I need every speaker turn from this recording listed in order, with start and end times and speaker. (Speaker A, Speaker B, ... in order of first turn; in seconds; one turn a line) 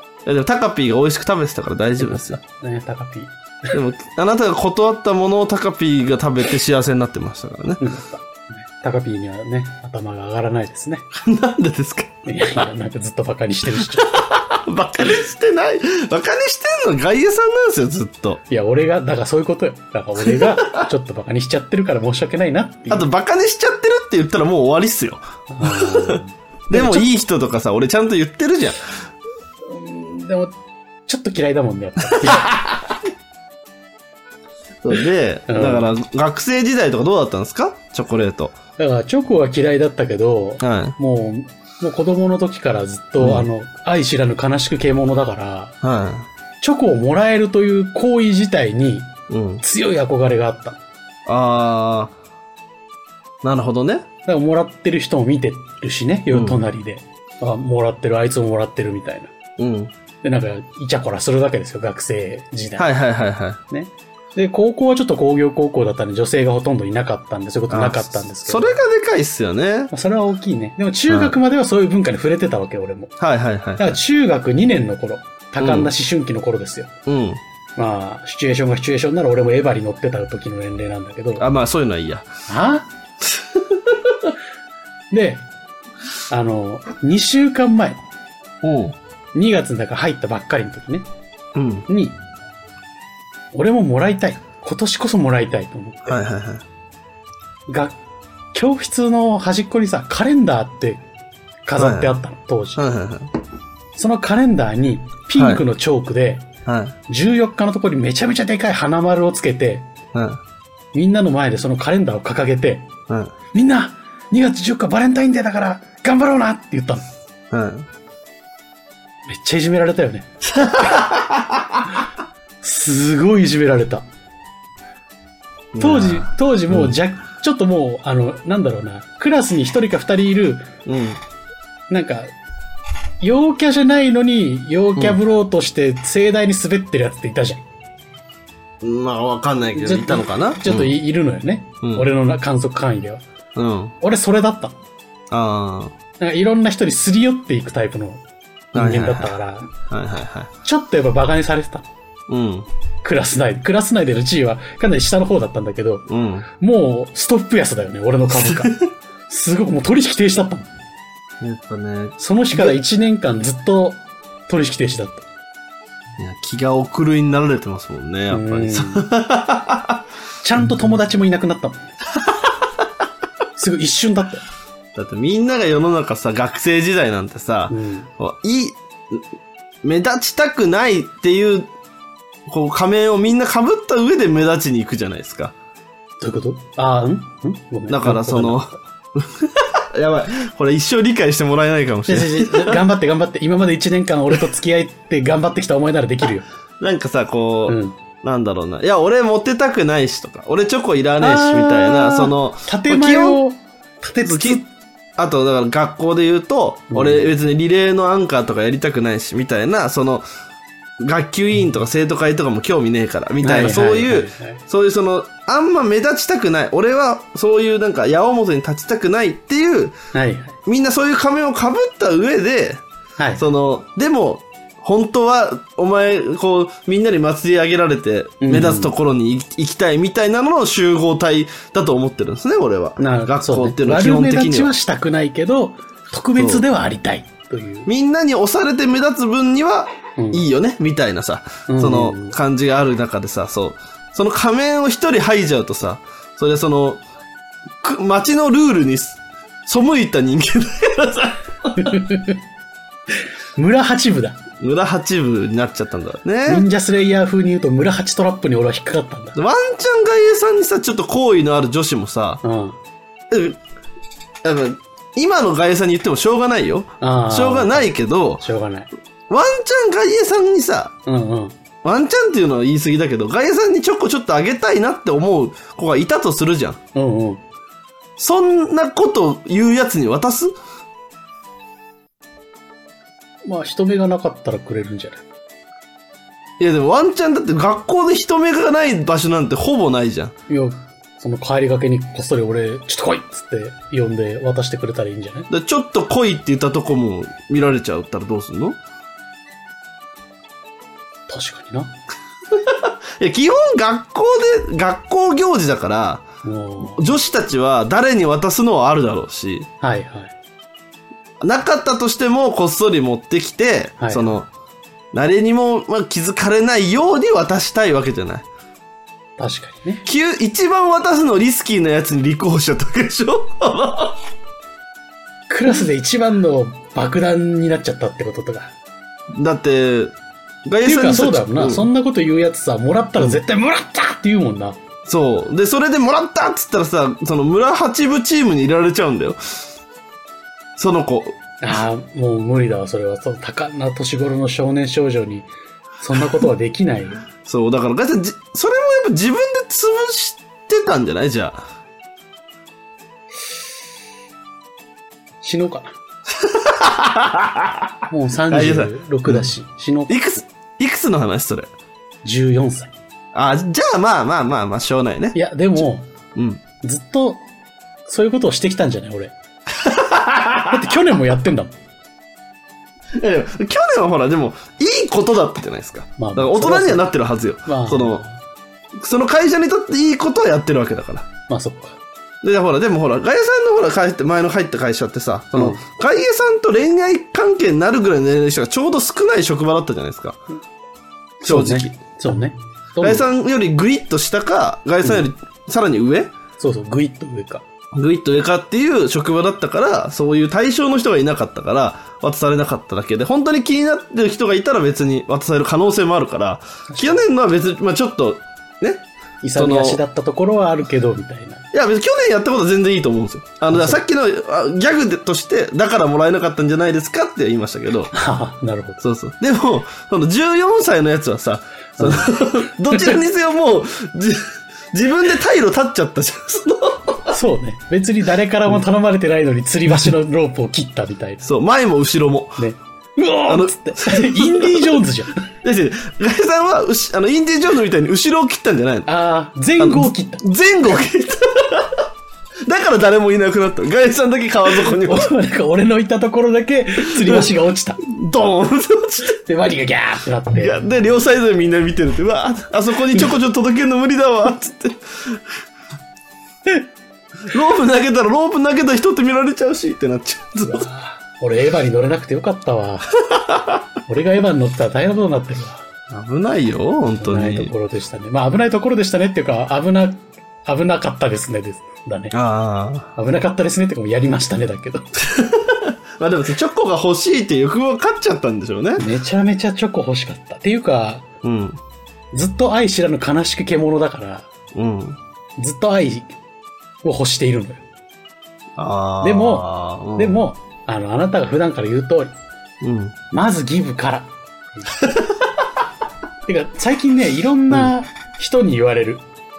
Speaker A: 0.2-2.4
Speaker B: 2.0-3.7
Speaker A: 3.7-7.8
Speaker B: 7.8-11.1
Speaker A: 11.1-12.6
Speaker B: 12.2-14.2
Speaker A: 14.1-18.4
Speaker B: 18.5-23.1
Speaker A: 20.2-20.5
Speaker A: 22.9-28.8
Speaker B: 25.5-27.1
Speaker B: 29.7-30.5
Speaker B: 31.1-32.5
Speaker A: 32.2-32.8
Speaker A: 34.8-38.5
Speaker B: 35.5-35.9
Speaker B: 38.8-45.8
Speaker A: 40.6-41.0
Speaker A: 43.2-43.5
Speaker A: 45.8-46.3
Speaker B: 46.6-50.8
Speaker A: 49.3-49.6
Speaker A: 51.2-52.1
Speaker A: 53.4-54.0
Speaker B: 54.2-59.3
Speaker A: 56.3-56.6
Speaker A: 59.6-59.9
Speaker B: 60.2-62.9
Speaker A: 62.8-63.6
Speaker B: 63.7-68.8
Speaker A: 67.7-69.9
Speaker B: 69.9-73.1
Speaker A: 71.1-71.4
Speaker A: 73.2-74.0
Speaker B: 73.8-76.9
Speaker A: 75.6-75.9
Speaker A: 77.0-77.4
Speaker B: 77.8-81.4
Speaker A: 81.4-82.3
Speaker B: 82.5-82.8
Speaker A: 83.4-83.7
Speaker B: 85.1-85.5
Speaker B: 86.3-88.0
Speaker A: 88.6-89.0
Speaker B: 89.3-91.0
Speaker A: 91.5-91.8
Speaker B: 91.9-92.2
Speaker B: 93.5-96.3
Speaker A: 96.1-96.6
Speaker B: 97.7-98.0
Speaker B: 98.5-101.0
Speaker B: 101.6-102.8
Speaker A: 101.8-102.1
Speaker A: 102.8-103.3
Speaker B: 104.0-106.5
Speaker A: 105.3-105.6
Speaker A: 106.7-107.0
Speaker B: 107.1-109.9
Speaker A: 110.1-110.4
Speaker B: 110.9-112.9
Speaker A: 113.1-113.3
Speaker B: 113.5-117.1
Speaker A: 117.5-117.9
Speaker B: 119.3-120.3
Speaker A: 120.5-121.6
Speaker B: 122.6-124.0
Speaker A: 125.7-127.0
Speaker B: 125.8-130.7
Speaker A: 130.8-131.2
Speaker B: 131.9-132.3
Speaker B: 133.2-137.6
Speaker A: 138.8-140.9
Speaker B: 139.7-143.2
Speaker A: 141.8-142.1
Speaker A: 143.5-143.9
Speaker B: 144.0-144.8
Speaker A: 145.3-145.9
Speaker B: 146.2-148.2
Speaker B: 148.7-149.7
Speaker A: 148.7-149.3
Speaker A: 149.9-150.5
Speaker B: 150.6-151.9
Speaker A: 152.3-152.7
Speaker B: 153.0-156.1
Speaker A: 156.1-156.5
Speaker B: 156.6-160.7
Speaker A: 158.3-158.7
Speaker A: 161.4-162.7
Speaker B: 162.2-165.2
Speaker A: 166.2-170.0
Speaker B: 168.3-169.1
Speaker B: 170.4-172.0
Speaker B: 173.6-174.4
Speaker A: 174.9-179.2
Speaker B: 177.7-178.1
Speaker A: 179.8-181.7
Speaker A: 182.5-185.5
Speaker B: 186.2-188.8
Speaker A: 187.9-192.8
Speaker B: 192.1-196.4
Speaker A: 196.8-203.4
Speaker B: 197.7-197.9
Speaker B: 201.2-204.7
Speaker A: 204.2-204.6
Speaker A: 205.2-210.2
Speaker B: 206.9-207.3
Speaker A: 211.0-220.0
Speaker B: 213.4-214.6
Speaker B: 220.1-220.6
Speaker A: 220.7-222.8
Speaker B: 223.2-223.4
Speaker A: 223.4-234.7
Speaker B: 228.4-228.9
Speaker B: 233.0-237.9
Speaker A: 236.4-236.6
Speaker A: 237.8-247.0
Speaker B: 240.2-240.4
Speaker B: 241.7-242.3
Speaker A: 247.8-252.0
Speaker B: 251.8-252.4
Speaker B: 253.6-254.4
Speaker A: 254.6-256.6
Speaker B: 256.4-259.4
Speaker A: 259.3-262.4
Speaker B: 262.4-262.8
Speaker A: 263.3-263.6
Speaker A: 264.4-268.4
Speaker B: 267.0-268.9
Speaker A: 269.3-270.9
Speaker B: 271.1-271.5
Speaker A: 271.8-276.8
Speaker B: 276.9-277.4
Speaker A: 278.2-280.5
Speaker B: 283.4-285.2
Speaker A: 286.6-290.3
Speaker B: 290.5-295.5
Speaker A: 295.5-298.8
Speaker B: 301.3-301.9
Speaker A: 302.5-306.2
Speaker B: 306.4-307.1
Speaker A: 306.8-309.7
Speaker B: 309.8-310.3
Speaker A: 311.4-314.5
Speaker B: 314.0-314.3
Speaker A: 315.1-318.4
Speaker B: 319.4-320.0
Speaker A: 320.0-324.2
Speaker B: 325.5-328.7
Speaker A: 329.3-330.1
Speaker A: 330.6-331.9
Speaker B: 330.8-334.8
Speaker A: 335.1-339.4
Speaker A: 340.8-341.4
Speaker B: 341.6-345.5
Speaker B: 346.0-347.2
Speaker A: 347.4-351.6
Speaker B: 355.4-355.9
Speaker A: 356.4-357.9
Speaker B: 358.1-360.1
Speaker A: 358.5-359.5
Speaker A: 360.1-361.7
Speaker B: 362.2-362.9
Speaker A: 363.3-365.8
Speaker B: 365.3-366.1
Speaker A: 366.3-366.6
Speaker B: 366.8-367.4
Speaker B: 368.1-369.3
Speaker A: 369.8-370.8
Speaker B: 370.7-371.7
Speaker A: 373.1-378.2
Speaker B: 376.2-377.1
Speaker B: 377.6-378.4
Speaker A: 378.9-381.3
Speaker B: 381.5-382.0
Speaker A: 382.4-390.4
Speaker B: 385.5-385.8
Speaker B: 391.4-393.3
Speaker A: 391.4-391.9
Speaker A: 393.0-396.3
Speaker B: 395.0-395.3
Speaker B: 396.6-397.6
Speaker A: 397.9-410.0
Speaker B: 406.9-407.2
Speaker B: 409.4-411.6
Speaker A: 411.7-418.1
Speaker B: 413.7-414.0
Speaker B: 418.1-419.0
Speaker A: 419.0-427.3
Speaker B: 422.0-422.3
Speaker B: 422.9-423.2
Speaker B: 427.3-431.4
Speaker A: 431.4-432.6
Speaker B: 432.6-435.4
Speaker A: 433.5-434.9
Speaker A: 435.6-439.1
Speaker B: 439.1-440.4
Speaker A: 439.8-442.0
Speaker A: 442.6-445.3
Speaker B: 444.8-448.0
Speaker A: 447.2-447.5
Speaker A: 448.0-449.3
Speaker B: 449.2-450.8
Speaker A: 450.6-455.4
Speaker A: 457.5-460.9
Speaker B: 460.6-463.1
Speaker A: 463.3-463.8
Speaker B: 464.1-465.9
Speaker A: 466.1-467.7
Speaker B: 467.2-472.3
Speaker A: 472.3-473.1
Speaker B: 473.1-475.1
Speaker A: 475.2-479.1
Speaker B: 479.0-481.2
Speaker A: 481.4-481.8
Speaker B: 482.3-484.5
Speaker A: 484.7-485.2
Speaker B: 485.6-486.4
Speaker B: 487.0-487.8
Speaker A: 488.8-490.4
Speaker B: 489.2-492.3
Speaker A: 492.8-493.1
Speaker B: 493.3-494.9
Speaker B: 496.4-499.2